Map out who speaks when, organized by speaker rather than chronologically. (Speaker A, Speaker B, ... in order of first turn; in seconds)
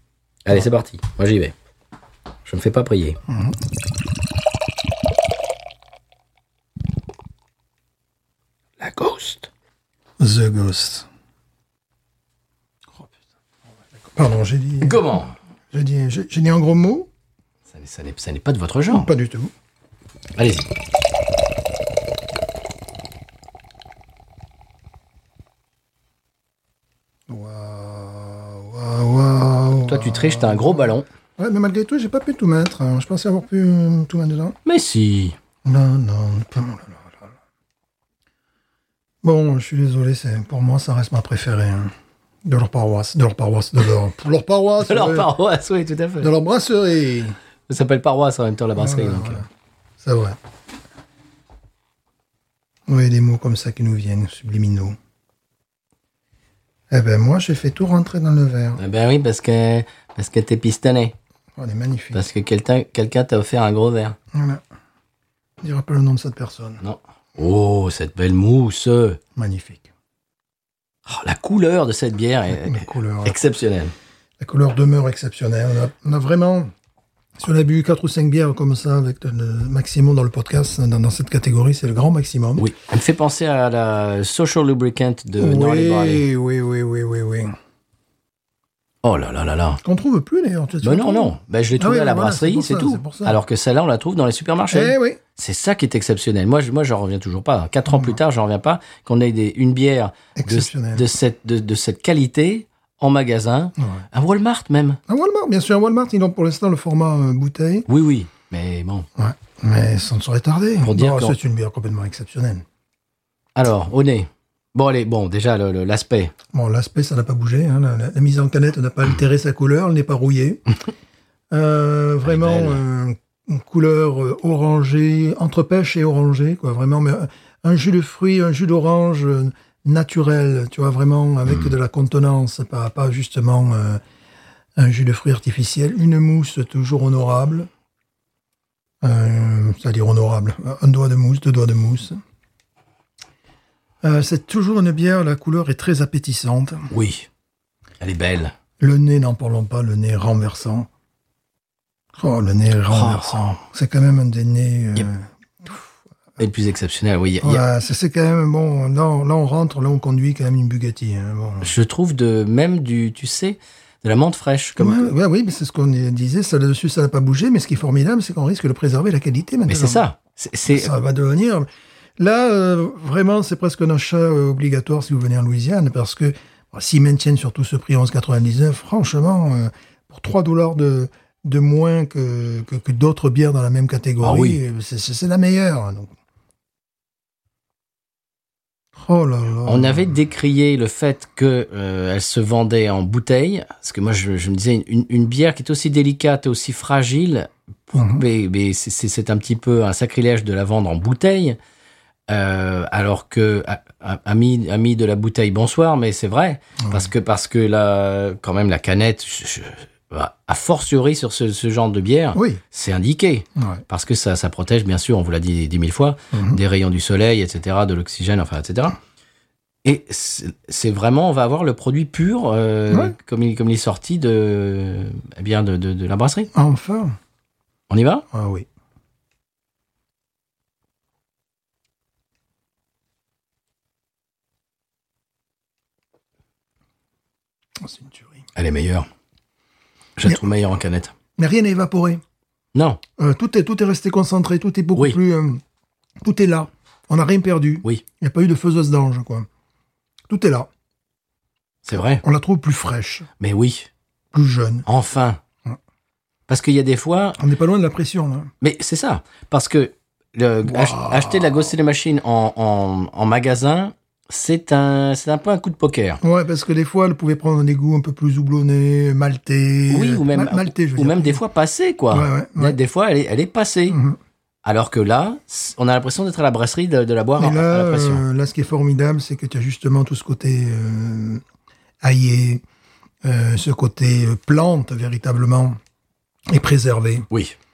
Speaker A: 0.5-1.6, 2.5-3.2, 8.8-9.5, 14.8-15.3, 17.7-19.1, 20.4-20.7, 29.9-31.1, 34.7-35.4, 44.8-46.3, 47.7-49.5, 58.8-61.1, 62.1-64.2, 66.8-69.2, 71.1-73.9, 82.6-86.2, 89.0-89.8, 90.8-105.0, 107.9-109.1, 110.8-111.3, 113.6-116.3, 122.2-122.8, 146.9-147.3, 148.0-148.5, 152.9-153.6, 156.4-157.6, 161.6-165.1, 169.7-170.9, 184.2-184.6, 189.7-201.6, 202.3-219.0, 219.8-226.5, 227.9-228.2, 238.6-239.1, 240.2-241.1, 242.8-243.0, 251.8-252.2, 253.4-253.9, 254.9-255.4, 256.5-257.4, 258.6-266.2, 269.9-274.0, 274.6-278.2
Speaker B: 3.3-3.6, 10.2-11.1, 14.1-15.1, 15.7-17.1, 18.9-19.5, 27.3-34.6, 35.6-37.3, 39.2-41.9, 42.4-45.3, 46.2-47.4, 48.8-49.5, 50.0-50.4, 52.9-55.0, 56.9-58.8, 61.6-62.2, 64.3-64.6, 65.6-66.8, 69.4-69.9, 72.5-73.4, 74.4-76.7, 77.4-82.7, 85.4-87.6, 89.8-93.4, 94.7-95.2, 97.9-98.2, 100.4-101.0, 103.8-104.0, 105.1-107.9, 109.2-112.7, 116.5-120.6, 121.5-134.0, 134.8-137.7, 139.0-142.2, 144.0-146.9, 148.8-150.9, 152.2-155.8, 157.4-161.7, 164.8-170.0, 170.7-171.7, 172.2-186.1, 189.0-190.1, 197.9-198.2, 206.8-207.1, 212.3-212.6, 213.6-213.8, 216.3-216.6, 226.5-227.2, 228.3-228.7, 237.8-238.4, 241.4-242.2, 243.2-245.6, 246.2-249.5, 250.3-250.7, 252.2-253.3, 254.3-254.8, 257.4-258.5, 260.6-261.6, 266.2-271.4, 272.1-272.8, 273.9-274.2, 277.4-281.4, 282.0-282.6, 283.2-285.8, 286.5-287.3